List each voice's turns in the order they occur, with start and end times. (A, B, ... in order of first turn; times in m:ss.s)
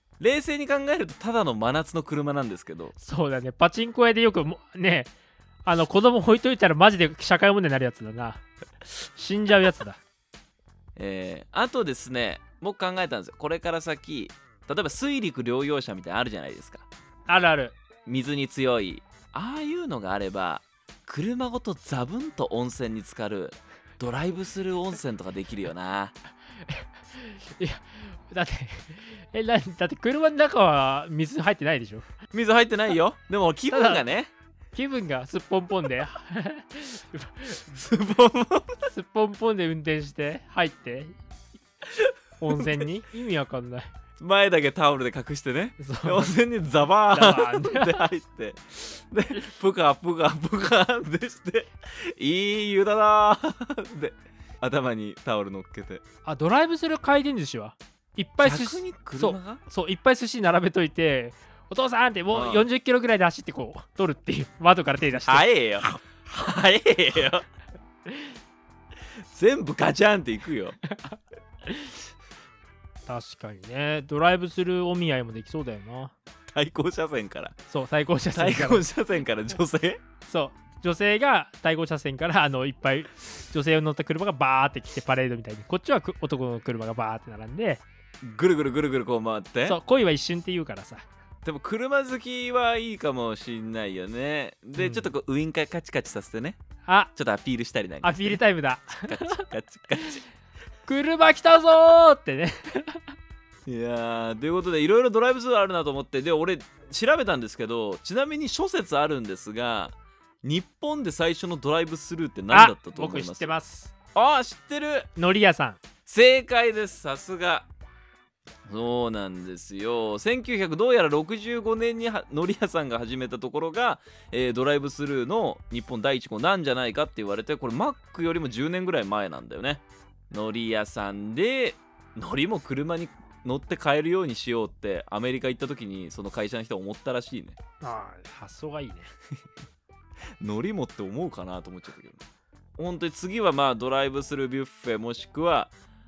0:00.2-0:03.0 A
0:03.0-0:05.1 B
0:05.6-0:10.0 B
0:11.0-0:16.9 A
0:17.3-0:17.8 B
0:18.1-0:26.2 A
0:26.7-0:32.1 B
0:32.3-0:34.3 A
0:33.7-0:34.0 B
0:34.7-0:37.8 B
0:37.7-0:38.9 A
0:38.9-0:41.2 B
0:41.9-0:42.8 A
0:42.4-0:43.9 B
0:44.2-0:56.0 A
0:45.8-0:46.3 B
0:47.1-0:48.1 B
0:56.2-1:06.0 B
0:58.4-0:59.6 A
1:02.3-1:02.6 A
1:05.2-1:07.4 A
1:09.2-1:10.8 A
1:10.9-1:11.9 B
1:13.1-1:16.1 B
1:16.5-1:17.6 A
1:17.7-1:18.8 B
1:18.3-1:20.0 A
1:20.3-1:27.8 B
1:28.2-1:29.8 A
1:29.6-1:31.1 B
1:31.4-1:36.6 A
1:34.8-1:35.1 B
1:36.9-1:37.1 B
1:37.2-1:38.4 A
1:38.0-1:39.5 B
1:38.9-1:40.2 A
1:40.9-1:43.1 B
1:43.7-1:53.5 A
1:52.5-1:53.9 B
1:54.2-1:55.1 A
1:55.2-1:55.8 B
1:56.1-1:57.7 A
1:58.7-2:17.6 A
2:17.8-2:19.1 B
2:20.4-2:22.3 A
2:22.8-2:25.7 A